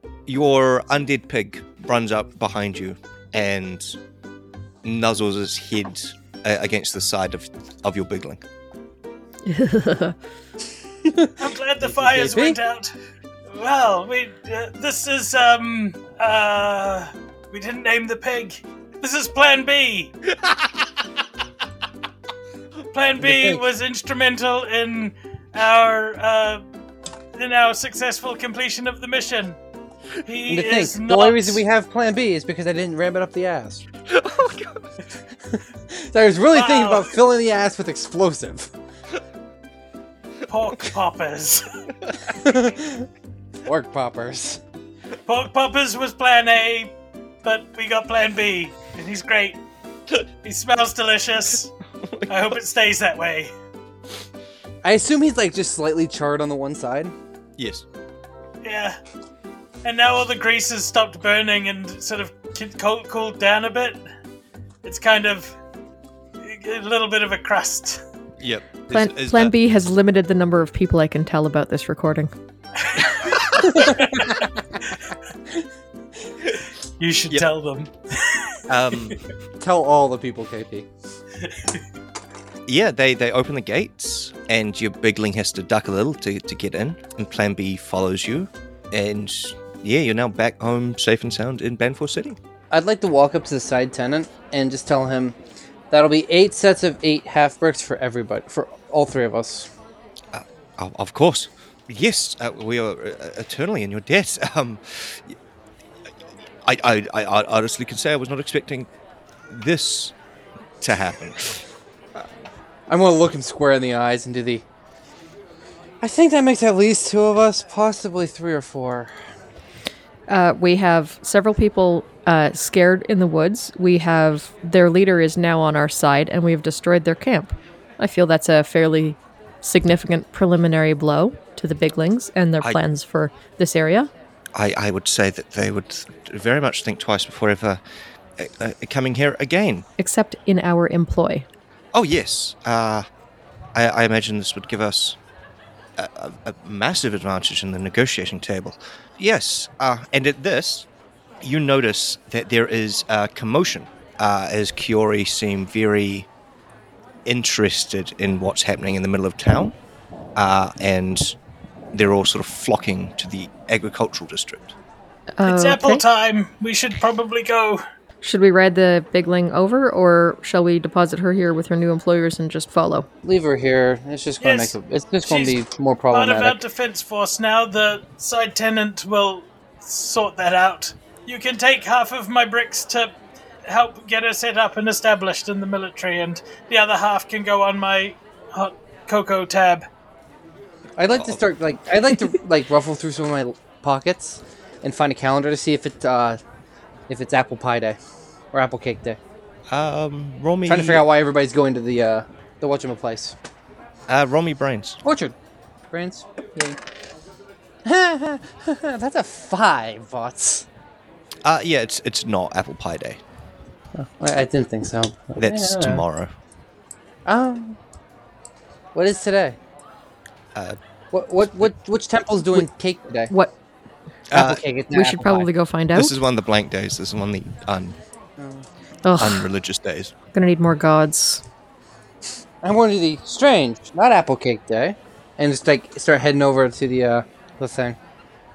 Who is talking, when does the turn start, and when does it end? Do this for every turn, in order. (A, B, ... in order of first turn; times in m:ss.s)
0:00.3-0:04.0 A
0:04.8-0:08.4 A
0:09.5-0:10.2 B
0:11.1-0:12.6 C
0:11.4-0:12.9 D
0:13.5-0:20.1 D
0:20.4-0:20.9 A
0:22.9-0:26.6 D
0:23.2-0:23.6 C
0:27.4-0:29.6 D
0:30.2-0:31.6 D
0:30.5-0:33.8 C
0:34.1-0:34.9 A
0:35.5-0:38.7 C
0:36.5-0:37.1 D
0:40.5-0:41.6 D
0:42.3-0:43.1 C
0:43.6-0:44.6 C
0:45.3-0:49.6 D
0:50.4-0:51.7 D
0:52.0-0:52.4 A
0:52.3-0:53.5 D
0:54.8-0:57.1 C
0:57.6-0:57.8 A
0:58.6-0:59.0 D
0:59.8-1:04.0 D
1:04.8-1:05.6 D
1:06.4-1:08.0 D
1:08.4-1:09.5 A
1:08.9-1:12.3 B
1:12.8-1:14.3 D
1:13.6-1:14.2 C
1:17.0-1:18.6 D
1:18.7-1:19.2 A
1:19.6-1:20.9 C
1:21.4-1:21.8 D
1:22.7-1:32.4 A
1:32.7-1:35.4 C
1:35.9-1:39.7 C
1:40.3-1:45.4 A
1:46.6-1:48.9 A
1:49.5-1:50.1 A
1:50.8-1:51.7 A
1:52.9-1:54.6 C
1:56.0-1:59.1 C
2:00.3-2:14.1 B
2:14.6-2:17.8 A
2:18.4-2:19.9 A
2:20.0-2:21.5 B
2:21.9-2:23.1 A
2:23.7-2:25.2 A
2:26.0-2:30.9 A
2:31.4-2:36.3 A
2:37.2-2:39.8 A
2:40.4-2:41.4 A
2:41.9-2:44.8 A
2:45.4-2:46.0 B
2:45.4-2:47.8 D
2:48.2-2:53.1 B
2:53.2-2:56.6 C
2:54.4-2:55.6 D
2:56.1-3:09.8 D
3:11.0-3:16.4 C
3:11.2-3:11.4 A
3:17.1-3:18.0 C
3:18.5-3:19.2 C
3:19.7-3:21.0 A
3:20.7-3:23.4 C
3:24.1-3:25.0 A
3:25.0-3:25.3 C
3:25.9-3:26.8 C
3:27.8-3:30.7 C
3:31.4-3:33.2 A
3:34.0-3:36.0 C
3:35.4-3:36.3 A
3:37.3-3:37.8 C
3:39.0-3:39.6 C
3:41.1-3:43.3 C
3:44.3-3:44.6 A
3:44.3-3:45.5 C
3:44.9-3:46.1 B
3:46.0-3:48.0 A
3:48.4-3:48.7 C
3:49.0-3:49.5 B
3:49.2-3:50.1 A
3:50.3-3:51.4 B
3:52.6-3:58.0 C